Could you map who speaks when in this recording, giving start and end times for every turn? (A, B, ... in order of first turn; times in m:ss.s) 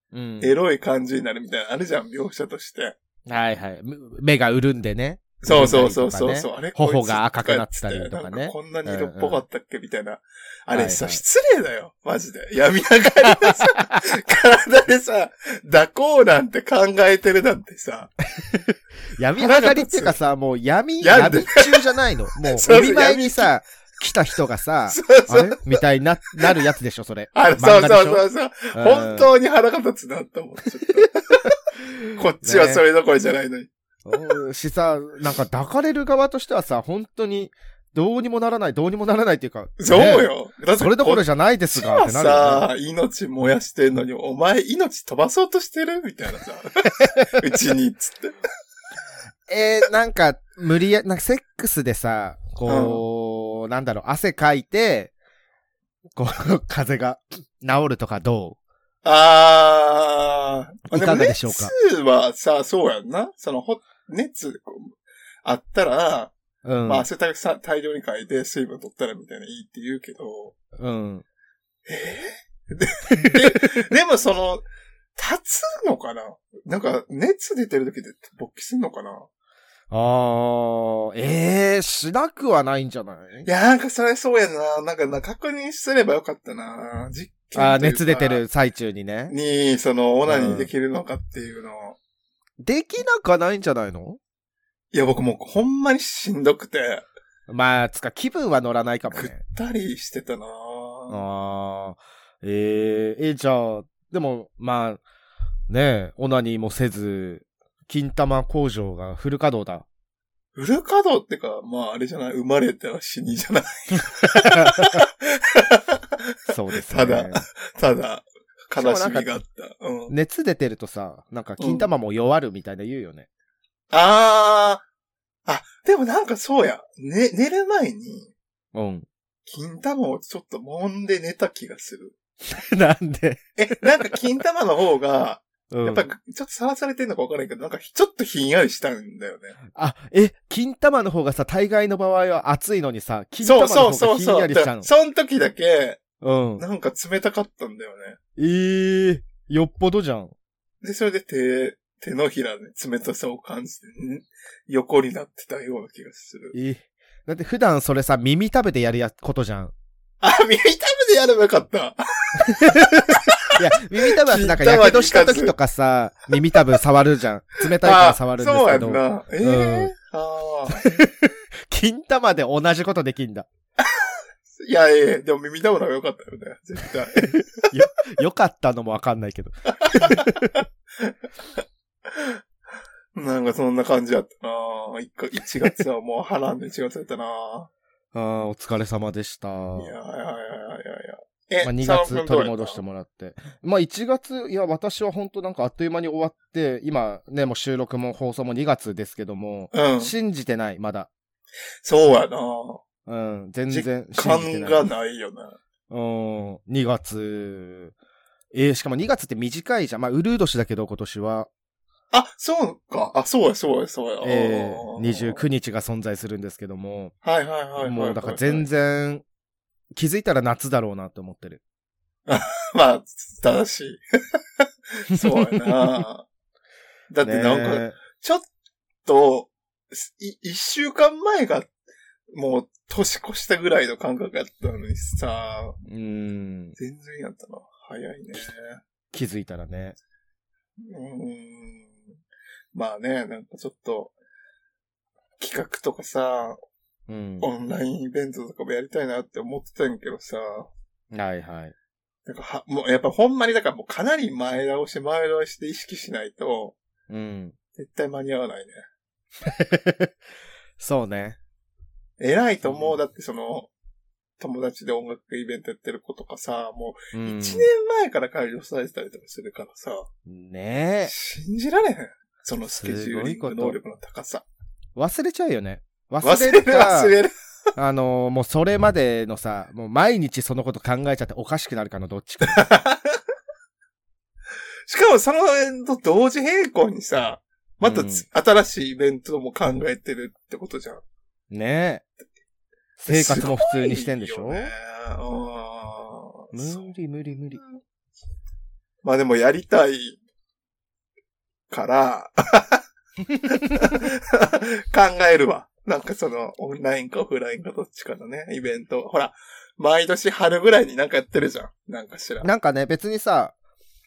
0:00.1-0:00.5 A
0:00.4-0:02.9 B
0:03.3-0:09.4 A
0:05.4-0:18.1 B
0:10.7-0:11.2 A
0:18.5-0:29.3 A
0:19.4-0:20.2 B
0:21.0-0:21.8 B
0:22.4-0:23.5 B
0:24.9-0:25.8 B
0:27.3-0:31.5 B
0:32.1-0:33.7 B
0:32.4-0:32.8 A
0:34.0-0:42.7 A
0:39.8-0:48.4 B
0:49.5-0:55.1 A
0:52.7-0:53.0 B
0:56.1-0:58.6 A
0:59.0-1:04.9 B
1:00.9-1:01.7 A
1:05.4-1:06.3 B
1:06.6-1:07.0 A
1:06.8-1:10.6 B
1:10.8-1:11.2 A
1:11.9-1:14.6 B
1:13.2-1:13.6 A
1:15.2-1:19.2 B
1:19.9-1:23.5 A
1:23.4-1:28.4 B
1:27.5-1:29.3 A
1:29.3-1:32.0 B
1:30.2-1:30.7 A
1:32.6-1:34.2 A
1:34.9-1:37.0 B
1:37.5-1:39.4 A
1:39.1-1:41.2 B
1:41.1-1:45.0 A
1:45.7-1:49.8 A
1:50.6-1:56.0 B
1:54.6-1:55.0 A
1:56.5-1:57.4 A
1:56.8-2:00.1 B
1:58.8-1:59.3 A
2:00.1-2:03.3 A
2:01.6-2:01.9 B
2:03.9-2:04.8 B
2:05.5-2:08.3 B
2:08.7-2:09.1 A
2:09.4-2:12.1 B
2:12.4-2:13.9 A
2:13.6-2:19.6 B
2:15.7-2:16.0 A
2:19.7-2:24.9 A
2:23.4-2:26.0 B
2:26.2-2:26.6 A
2:26.6-2:28.2 B
2:28.4-2:30.3 A
2:30.8-2:36.5 B
2:36.5-2:39.7 A
2:40.2-2:45.5 B
2:42.5-2:49.9 A
2:47.8-2:50.9 B
2:50.8-2:53.5 A
2:53.8-2:57.7 B
2:57.2-3:00.6 A
2:59.8-3:00.4 B
3:02.1-3:02.4 B
3:03.1-3:07.7 B
3:08.1-3:09.9 A
3:09.8-3:12.8 B
3:11.6-3:21.1 A
3:19.7-3:20.1 B
3:21.8-3:22.8 B
3:23.0-3:24.8 A
3:23.7-3:25.6 B
3:25.9-3:27.9 A
3:28.5-3:31.5 A
3:32.1-3:35.4 B
3:34.2-3:37.1 A
3:37.2-3:38.6 B
3:37.8-3:39.2 A
3:39.9-3:41.6 A
3:42.3-3:44.0 B
3:45.0-3:46.3 B
3:45.2-3:46.0 A
3:47.1-3:48.4 B
3:47.2-3:48.0 A
3:49.0-3:51.7 B
3:52.3-3:55.8 B
3:55.8-3:56.8 A
3:56.8-3:58.8 B
3:59.1-4:00.0 A
4:00.8-4:01.9 B
4:02.7-4:04.1 B
4:05.4-4:06.6 B
4:07.1-4:07.5 A
4:07.4-4:10.7 B
4:11.1-4:11.7 A
4:12.3-4:16.8 B
4:17.1-4:17.5 A
4:17.8-4:18.8 B
4:19.4-4:20.1 A
4:20.8-4:21.4 A
4:22.2-4:23.7 B
4:22.6-4:23.0 A
4:24.4-4:30.1 B
4:27.1-4:27.7 A
4:30.2-4:31.1 A
4:31.0-4:34.4 B
4:32.6-4:33.8 A
4:35.0-4:37.1 A
4:36.2-4:37.3 B
4:37.8-4:42.6 A
4:42.5-4:43.2 B
4:44.9-4:51.0 B
4:47.8-4:48.2 A
4:51.5-4:52.0 A
4:53.0-4:54.7 A
4:53.1-4:56.9 B
4:56.5-4:57.6 A
4:59.0-5:00.2 B
5:01.7-5:02.8 B
5:03.4-5:12.5 B
5:12.4-5:13.5 A